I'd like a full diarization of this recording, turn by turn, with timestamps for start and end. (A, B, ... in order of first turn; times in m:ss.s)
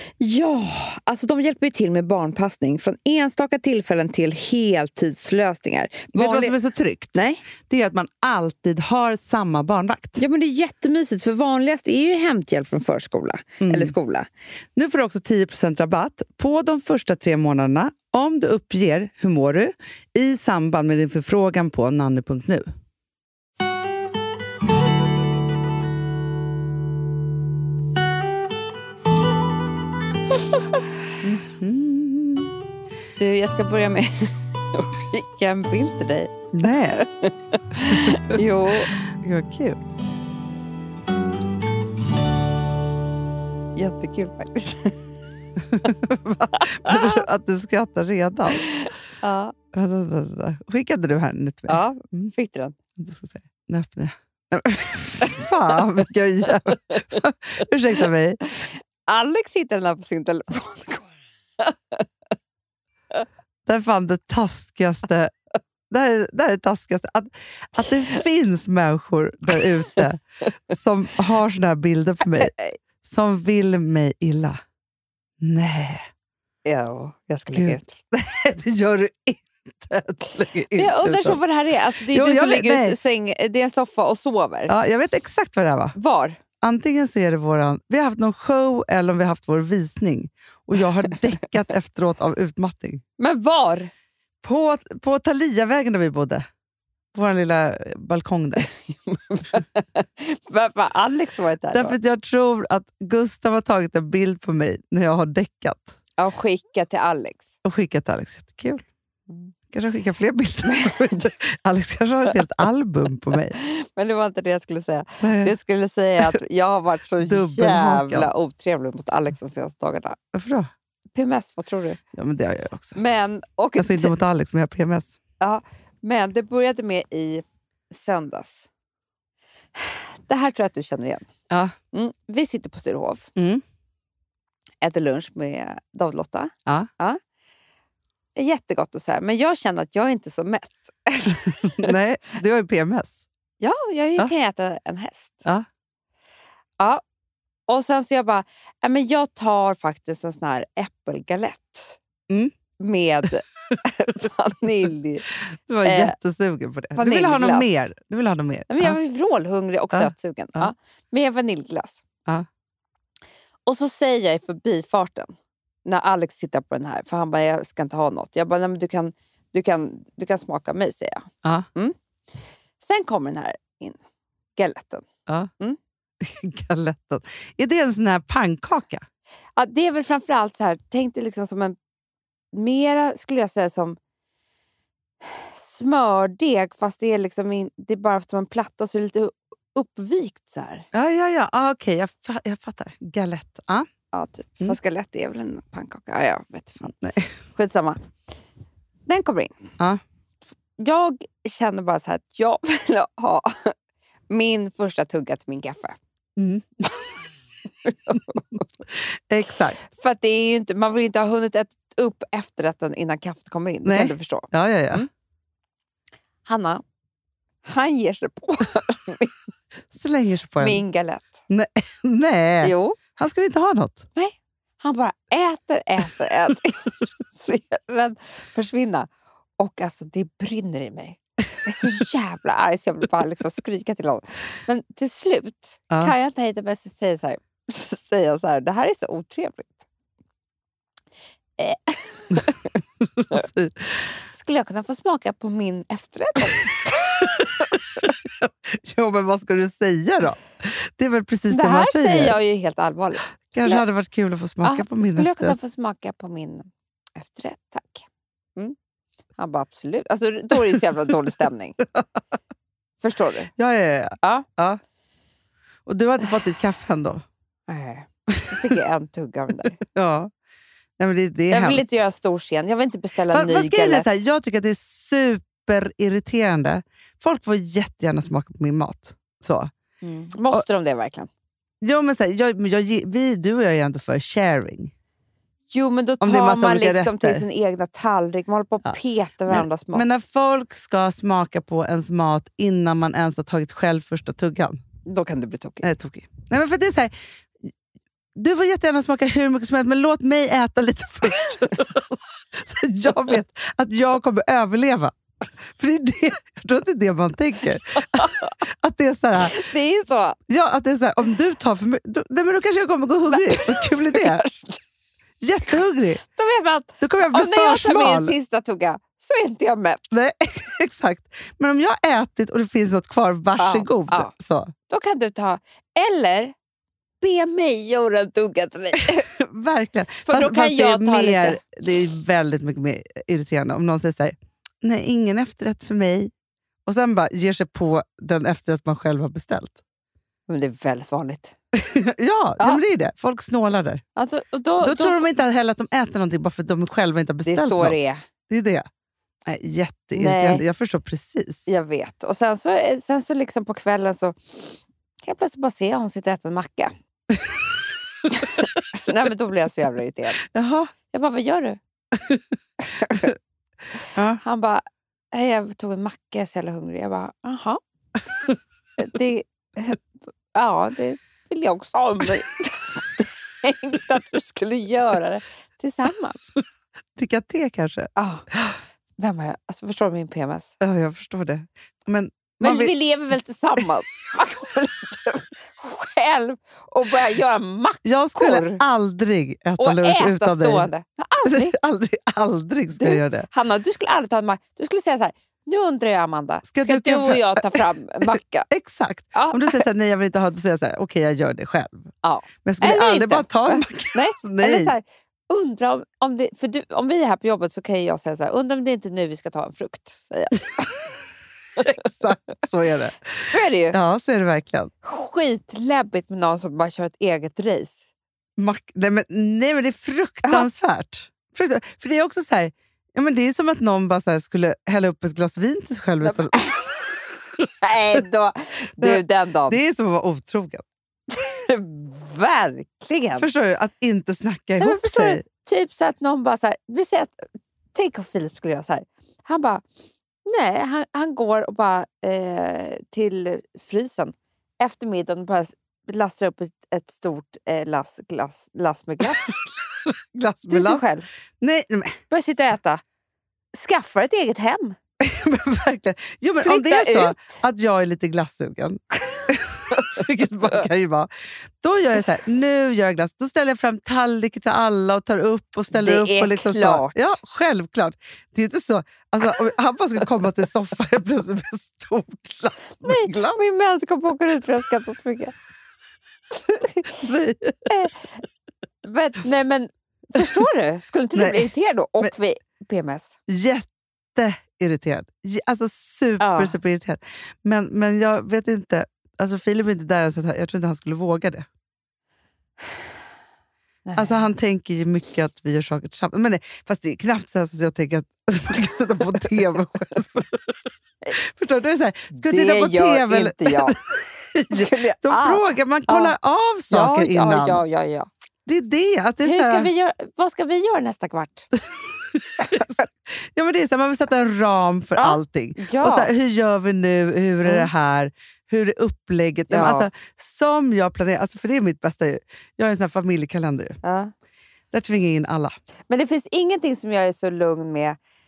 0:00.2-0:06.5 A
0:06.1-0:10.2 B
0:07.1-0:07.4 A
0:10.2-0:14.3 A
0:13.6-0:13.9 B
0:14.8-0:22.6 B
0:30.5-0:30.8 A
0:31.2-0:32.5 B
0:33.2-0:38.9 A
0:36.5-0:37.0 B
0:37.8-0:38.3 B
0:39.0-0:39.8 B
0:43.8-0:44.9 A
0:45.7-0:48.7 B
0:46.7-0:47.2 A
0:48.5-0:49.5 A
0:49.7-0:52.3 B
0:51.7-0:52.8 A
0:53.0-0:58.5 B
0:55.4-0:55.8 A
0:56.4-0:57.0 A
0:58.6-1:02.1 A
1:03.6-1:05.3 B
1:05.9-1:14.6 B
1:12.4-1:12.7 A
1:15.4-1:16.0 B
1:16.6-1:18.0 A
1:17.5-1:21.4 B
1:20.7-1:24.7 A
1:22.1-1:23.0 B
1:24.7-1:26.0 B
1:26.0-1:26.4 A
1:26.6-1:33.0 B
1:33.2-1:33.9 A
1:34.4-1:36.4 B
1:37.1-1:38.7 B
1:38.6-1:42.0 A
1:41.7-1:45.9 B
1:46.2-1:47.5 A
1:47.6-1:48.8 B
1:49.7-1:53.6 B
1:50.6-1:51.3 A
1:53.5-2:00.2 A
1:55.2-1:55.5 B
1:57.2-1:58.3 B
2:00.3-2:00.7 B
2:01.1-2:02.0 A
2:02.1-2:03.0 B
2:03.0-2:04.1 A
2:03.8-2:05.2 B
2:05.4-2:08.7 A
2:09.7-2:11.3 A
2:11.5-2:11.7 B
2:11.9-2:13.3 A
2:13.4-2:13.6 B
2:14.8-2:17.2 A
2:18.4-2:21.9 A
2:21.5-2:23.3 B
2:23.6-2:25.4 A
2:27.7-2:32.0 A
2:32.8-2:35.2 A
2:35.4-2:39.0 B
2:35.8-2:36.1 A
2:37.0-2:37.8 A
2:38.7-2:42.0 A
2:39.9-2:40.7 B
2:43.7-2:45.3 A
2:45.8-2:52.0 A
2:52.8-2:54.0 A
2:54.6-2:55.0 A
2:56.2-2:59.0 B
2:59.6-3:01.7 A
3:02.5-3:04.0 A
3:05.2-3:10.8 A
3:10.9-3:13.9 B
3:14.1-3:16.9 A
3:16.8-3:17.3 B
3:17.5-3:18.0 A
3:19.1-3:19.5 A
3:20.8-3:23.7 A
3:24.3-3:26.0 A
3:26.4-3:26.8 B
3:27.8-3:28.6 A
3:29.0-3:29.8 B
3:29.8-3:35.1 A
3:33.8-3:35.0 B
3:36.5-3:36.8 A
3:37.6-3:39.4 A
3:39.9-3:40.8 B
3:40.6-3:41.4 A
3:41.5-3:44.1 B
3:42.6-3:43.0 A
3:44.1-3:49.1 A
3:49.6-3:59.8 A
4:01.6-4:02.8 A
4:03.1-4:03.9 B
4:04.3-4:07.2 A
4:07.2-4:12.4 B
4:11.5-4:13.8 A
4:13.5-4:15.6 B
4:14.6-4:18.7 A
4:19.4-4:21.8 A
4:23.0-4:23.5 A
4:23.6-4:24.8 B
4:24.2-4:24.5 A
4:25.8-4:27.2 B
4:27.7-4:29.8 A
4:29.8-4:30.3 B
4:31.0-4:32.0 B
4:31.5-4:34.1 A
4:33.3-4:39.7 B
4:40.0-4:41.3 A
4:41.8-4:44.9 B
4:45.7-4:50.0 A
4:46.2-4:47.4 B
4:49.5-4:54.8 B
4:55.0-4:55.8 A
4:55.8-4:57.1 B
4:58.4-5:05.1 B
5:05.7-5:09.6 B
5:08.2-5:08.5 A
5:09.5-5:10.4 A
5:10.5-5:14.4 B
5:13.3-5:14.8 A
5:15.4-5:16.2 B
5:16.2-5:20.1 A
5:17.0-5:18.3 B
5:20.1-5:24.7 B
5:23.6-5:24.3 A
5:24.9-5:26.5 A
5:27.2-5:29.3 A
5:29.2-5:36.3 B
5:30.2-5:31.6 A
5:36.8-5:39.8 B
5:40.5-5:41.5 A
5:41.7-5:44.0 B
5:44.2-5:45.2 A
5:44.8-5:48.0 B
5:47.4-5:48.2 A
5:48.5-5:48.8 B
5:49.4-5:51.7 B
5:50.1-5:50.6 A
5:51.7-5:56.9 A
5:58.3-6:00.4 A
6:00.5-6:00.9 B
6:01.1-6:01.8 A
6:02.2-6:02.4 B
6:02.8-6:03.3 A
6:04.1-6:04.4 B
6:04.4-6:07.8 A
6:09.0-6:10.0 A
6:10.5-6:16.4 A
6:17.2-6:18.7 B
6:18.2-6:18.4 A
6:19.2-6:20.8 A
6:20.8-6:22.9 B
6:22.6-6:28.8 A
6:28.0-6:30.9 B
6:29.8-6:31.7 A
6:31.4-6:33.5 B
6:33.0-6:38.7 A
6:36.7-6:37.8 B
6:38.7-6:42.1 B
6:39.3-6:39.8 A
6:42.2-6:51.2 A
6:42.6-6:44.9 B
6:51.8-6:54.9 B
6:53.4-6:54.0 A
6:55.0-6:58.1 A
6:58.6-7:06.8 B
7:06.2-7:07.2 A
7:07.8-7:09.8 A
7:09.0-7:10.8 B
7:11.3-7:13.4 A
7:13.4-7:15.4 B
7:14.8-7:19.8 A
7:20.4-7:29.6 A
7:30.0-7:31.0 B
7:30.7-7:31.2 A
7:31.6-7:32.2 B
7:32.3-7:33.0 A
7:33.7-7:35.0 A
7:35.2-7:53.6 B
7:36.6-7:37.6 A
7:45.9-7:47.4 A
7:53.0-7:55.5 A
7:56.5-7:57.2 A
7:57.1-7:57.9 B
7:57.9-7:58.3 A
7:59.0-8:03.4 A
8:01.3-8:01.7 B
8:03.5-8:11.7 B
8:06.4-8:06.8 A
8:14.0-8:14.5 A
8:14.2-8:20.8 B
8:21.3-8:27.8 B
8:22.3-8:24.0 A
8:24.7-8:26.3 A
8:26.9-8:28.3 A
8:28.6-8:29.9 B
8:29.4-8:31.7 A
8:32.3-8:44.0 B
8:32.6-8:33.0 A
8:35.2-8:36.3 A
8:39.7-8:40.1 A
8:44.0-8:44.3 A
8:44.9-8:45.7 B
8:46.1-8:48.2 A